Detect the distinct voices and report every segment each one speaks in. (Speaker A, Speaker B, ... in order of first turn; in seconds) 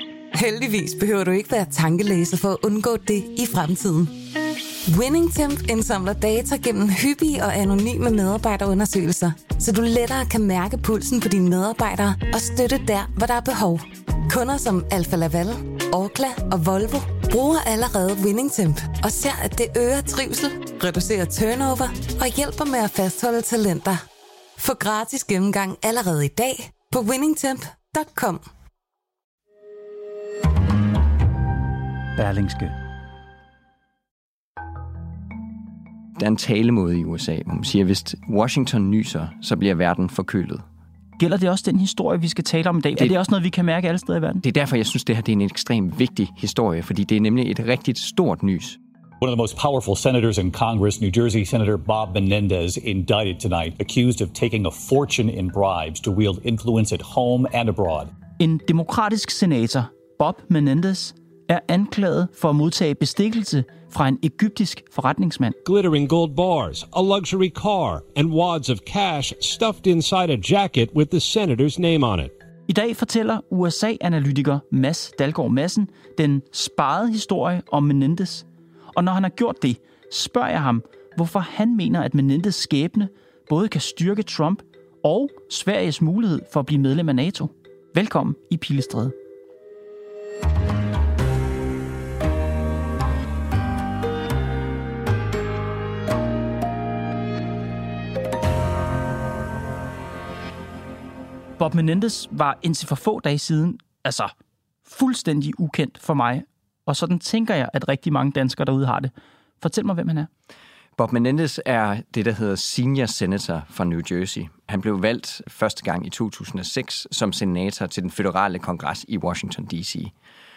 Speaker A: 0.3-4.2, 4.9-24.0, 24.6-28.4
Speaker B: 32.2-32.7, 41.2-44.4, 58.4-65.6, 72.7-89.2, 101.6-104.3, 104.8-110.3
Speaker C: 36.2-40.6, 44.4-48.8, 111.0-120.1
Speaker D: 49.2-58.1
Speaker E: 65.7-72.3